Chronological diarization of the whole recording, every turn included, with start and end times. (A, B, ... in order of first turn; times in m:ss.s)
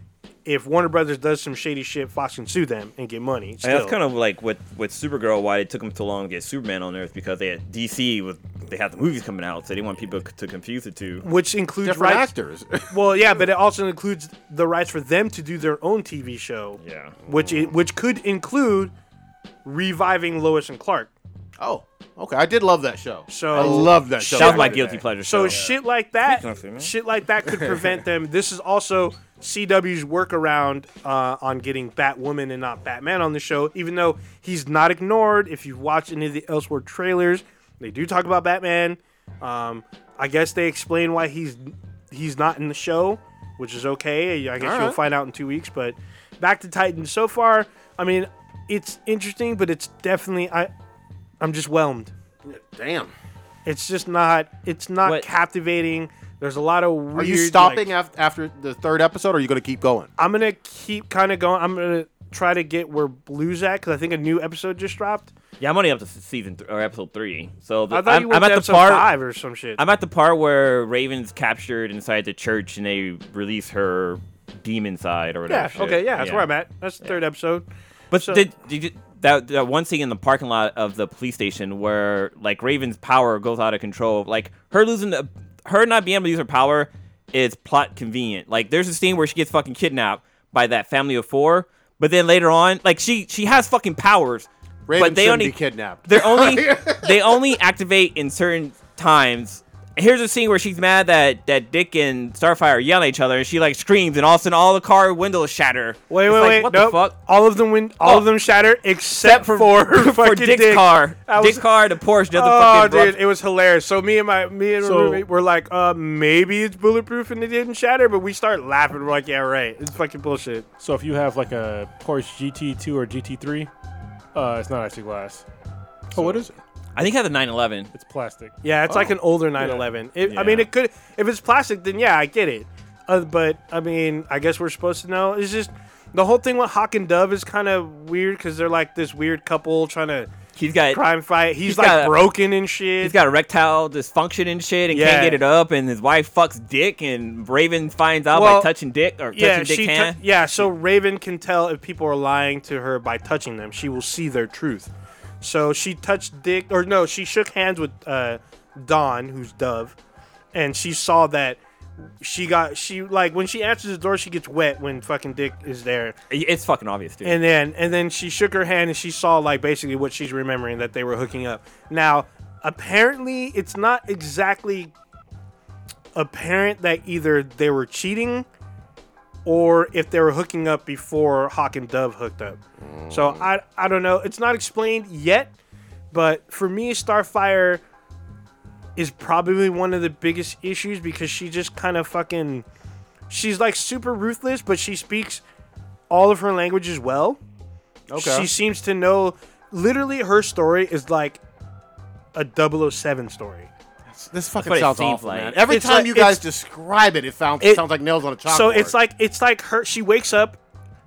0:00.4-0:04.0 A
0:03.6-0:11.3 B
0:11.2-0:12.3 A
0:11.8-0:13.0 C
0:12.9-0:18.9 A
0:16.8-0:17.2 B
0:17.3-0:17.7 C
0:19.6-0:21.1 A
0:21.6-0:25.6 C
0:23.3-0:50.7 A
0:23.5-0:26.9 B
0:44.6-0:45.0 C
0:51.4-0:52.1 A
0:52.4-0:53.1 C
0:53.6-0:57.9 A
0:57.1-1:00.1 C
1:00.2-1:05.3 A
1:05.6-1:09.1 B
1:07.9-1:09.8 A
1:09.8-1:16.5 B
1:15.5-1:17.6 A
1:18.1-1:47.1 B
1:18.2-1:18.4 A
1:34.9-1:37.4 C
1:46.1-1:51.6 A
1:48.0-1:48.3 B
1:49.2-1:53.2 B
1:52.3-2:00.7 A
1:54.8-1:55.2 D
2:00.8-2:03.7 D
2:04.3-2:05.4 D
2:06.1-2:06.6 C
2:06.1-2:06.5 D
2:07.0-2:07.9 B
2:07.9-2:08.6 D
2:08.6-2:20.3 A
2:08.9-2:09.1 C
2:09.6-2:09.8 D
2:10.3-2:10.7 B
2:20.6-2:21.0 B
2:20.9-2:23.1 A
2:21.6-2:22.2 B
2:23.0-2:30.2 B
2:24.9-2:25.4 A
2:28.3-2:28.7 A
2:29.3-2:39.9 A
2:40.5-2:41.6 A
2:42.2-2:46.1 A
2:46.3-2:47.4 B
2:47.2-2:54.9 A
2:56.1-2:58.4 A
2:59.4-3:02.6 A
3:02.8-3:03.5 C
3:03.1-3:05.5 A
3:06.1-3:07.8 A
3:09.0-3:12.6 A
3:13.3-3:15.4 A
3:16.1-3:17.4 A
3:18.1-3:18.5 C
3:18.1-3:21.4 A
3:22.3-3:23.7 A
3:24.1-3:29.0 C
3:24.6-3:25.6 B
3:25.7-3:26.4 A
3:28.4-3:30.6 A